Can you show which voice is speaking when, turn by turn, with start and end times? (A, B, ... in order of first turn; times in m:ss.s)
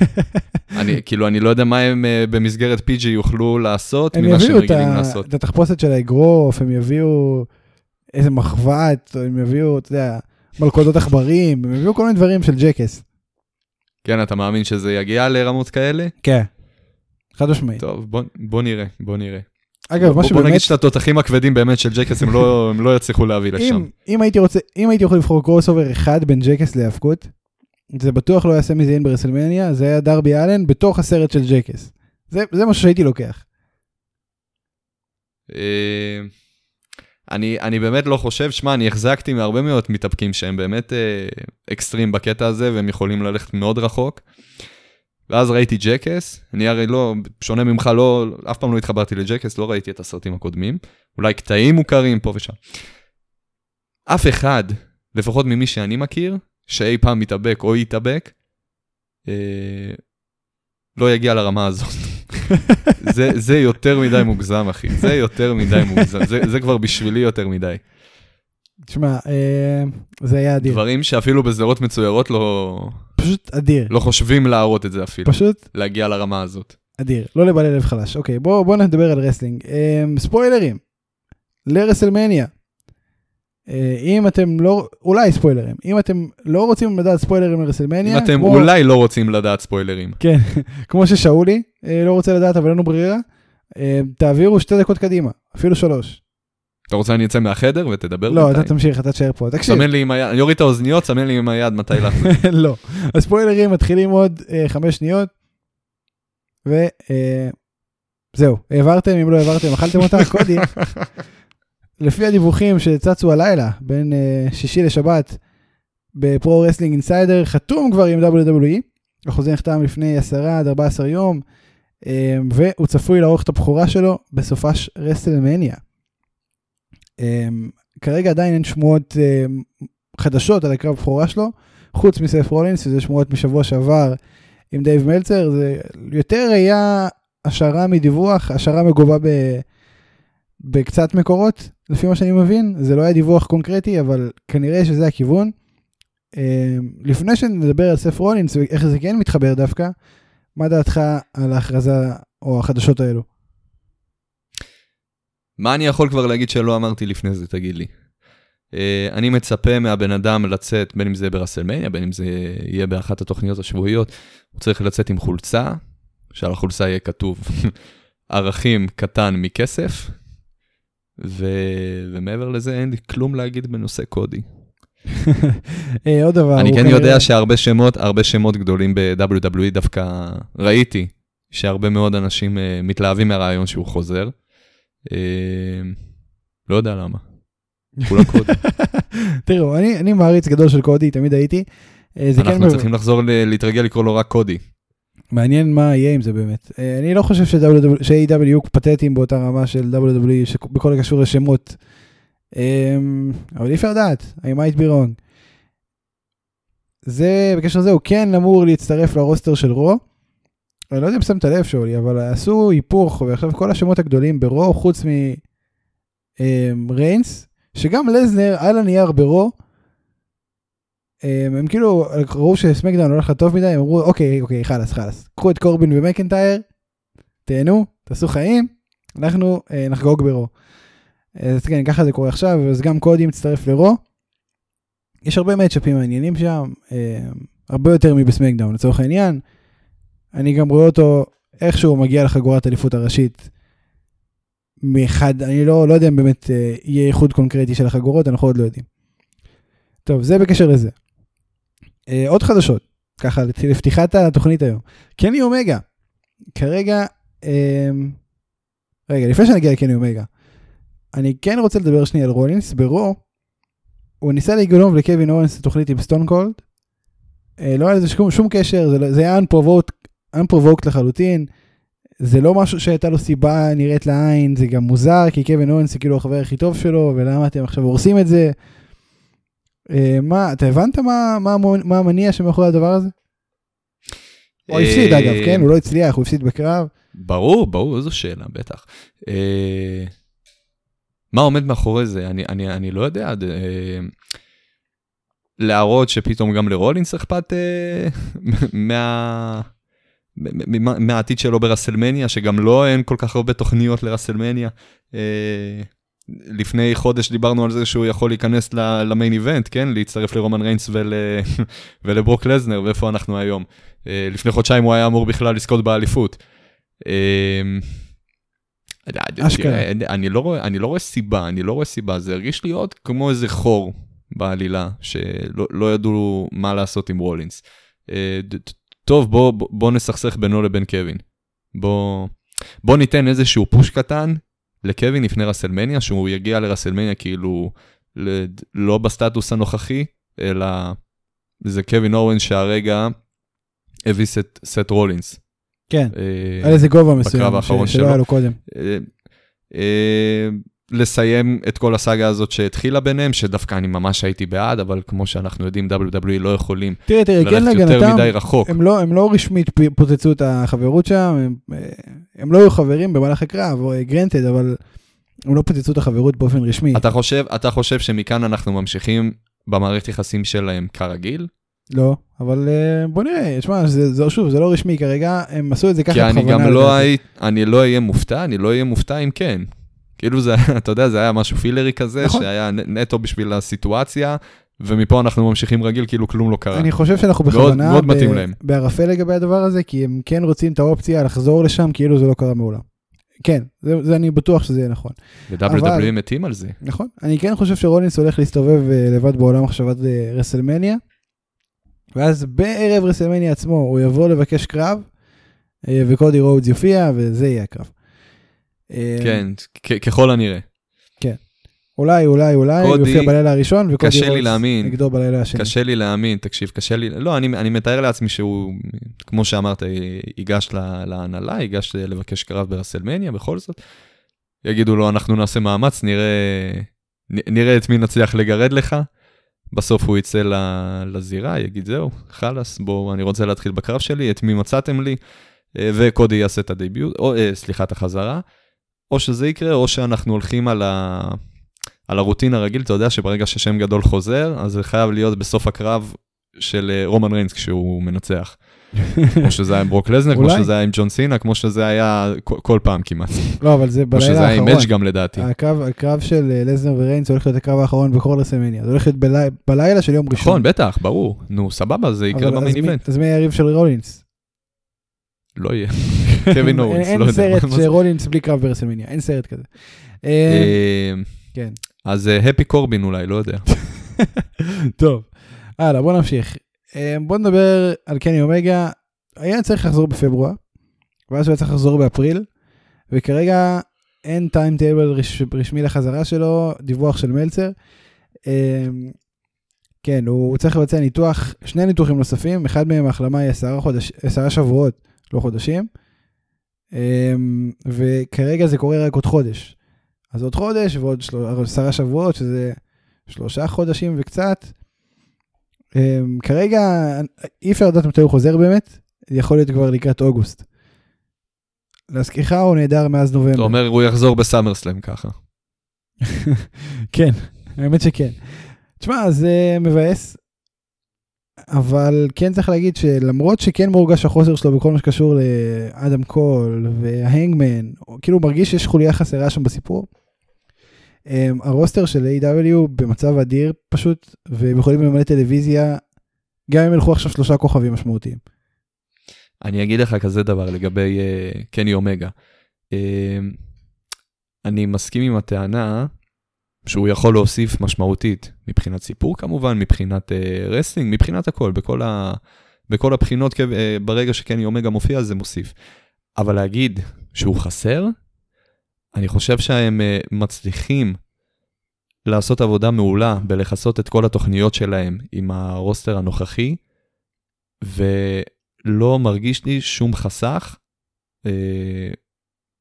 0:00.7-0:05.2 A
0:04.1-0:07.5 B
0:08.1-0:13.0 B
0:14.0-0:16.1 A
0:16.2-0:16.5 B
0:17.3-0:17.8 B
0:17.8-0:23.9 A
0:19.9-0:20.7 B
0:23.6-0:27.3 B
0:27.9-0:33.4 B
0:35.5-0:36.3 A
0:37.3-0:44.2 A
0:45.3-0:52.9 A
0:54.1-0:58.4 A
0:59.2-1:00.1 A
1:01.0-1:07.8 A
1:08.9-1:10.8 B
1:10.6-1:13.1 A
1:13.2-1:13.9 B
1:13.9-1:16.8 A
1:15.2-1:15.6 B
1:17.0-1:20.8 B
1:21.6-1:22.5 B
1:23.7-1:28.7 B
1:28.0-1:30.2 A
1:30.2-1:33.2 B
1:33.8-1:36.2 B
1:36.9-1:38.7 A
1:38.3-1:39.8 B
1:39.6-1:42.4 A
1:42.3-1:45.3 B
1:46.6-1:47.5 B
1:48.3-1:50.8 B
1:52.0-1:55.4 B
1:56.1-2:01.4 B
2:02.0-2:05.8 B
2:07.2-2:14.2 B
2:14.7-2:19.7 B
2:20.6-2:25.5 B
2:26.3-2:29.9 B
2:30.6-2:33.3 B
2:35.6-2:37.9 A
2:38.7-2:45.8 A
2:46.3-2:47.8 A
2:48.3-2:50.2 A
2:51.2-2:54.4 A
2:56.0-2:57.3 B
2:56.6-3:04.4 A
3:05.0-3:06.0 A
3:06.7-3:07.2 A
3:08.0-3:08.6 A
3:08.6-3:11.6 B
3:12.2-3:12.9 B
3:12.4-3:14.6 A
3:15.3-3:21.8 B
3:22.5-3:25.2 B
3:27.0-3:30.0 B
3:30.9-3:35.4 B
3:36.4-3:39.5 B
3:41.2-3:46.6 B
3:47.4-3:50.5 B
3:51.4-3:54.0 B
3:55.2-3:59.4 B
4:00.3-4:03.4 B
4:04.8-4:08.9 B
4:10.0-4:11.0 B
4:12.1-4:15.8 B
4:16.5-4:18.2 B
4:19.1-4:20.3 B
4:21.1-4:23.2 B
4:24.2-4:26.6 B
4:27.6-4:31.5 B
4:32.2-4:38.5 B
4:39.9-4:43.1 B
4:44.7-4:45.7 A
4:44.7-4:46.9 B
4:47.1-4:50.1 A
4:51.3-4:54.1 A
4:55.6-4:59.7 A
5:00.4-5:16.4 A
5:17.0-5:18.0 A
5:19.1-5:41.0 A
5:19.4-5:19.8 B
5:41.6-5:43.1 A
5:44.0-5:45.4 A
5:45.9-5:48.6 B
5:46.1-5:49.2 A
5:49.7-5:58.8 A
5:57.1-6:04.8 B
6:05.4-6:07.0 B
6:06.9-6:11.5 A
6:11.9-6:17.1 B
6:16.1-6:26.9 A
6:22.2-6:22.4 B
6:26.7-6:32.8 B
6:27.5-6:28.6 A
6:33.4-6:36.1 B
6:35.5-6:36.8 A
6:36.8-6:41.0 B
6:42.1-6:45.1 B
6:45.9-6:47.9 B
6:48.9-6:49.4 B
6:49.2-6:50.6 A
6:51.2-6:51.4 B
6:52.0-6:55.7 B
6:52.8-6:53.4 A
6:54.0-7:03.8 A
7:04.6-7:09.0 A
7:09.7-7:15.2 A
7:15.7-7:18.4 A
7:19.1-7:21.4 A
7:22.0-7:35.5 A
7:30.3-7:30.7 B
7:33.6-7:40.6 B
7:40.3-7:43.0 A
7:42.3-7:44.2 B
7:45.6-7:47.9 A
7:46.6-7:50.8 B
7:50.5-7:51.4 A
7:52.0-7:53.7 A
7:54.2-8:00.6 B
8:01.3-8:02.5 B
8:03.1-8:07.7 B
8:08.4-8:09.2 B
8:10.0-8:15.9 B
8:16.9-8:19.8 B
8:20.3-8:24.7 B
8:25.9-8:30.6 B
8:32.1-8:33.8 B
8:33.5-8:35.3 A
8:36.6-8:40.4 B
8:41.7-8:50.1 B
8:51.3-8:56.0 B
8:56.7-8:58.4 B
8:59.6-9:02.3 A
9:02.9-9:03.5 A
9:04.6-9:06.1 A
9:06.8-9:15.8 A
9:16.4-9:18.1 A
9:19.1-9:21.2 A
9:22.3-9:26.8 A
9:27.8-9:30.8 A
9:31.4-9:32.2 A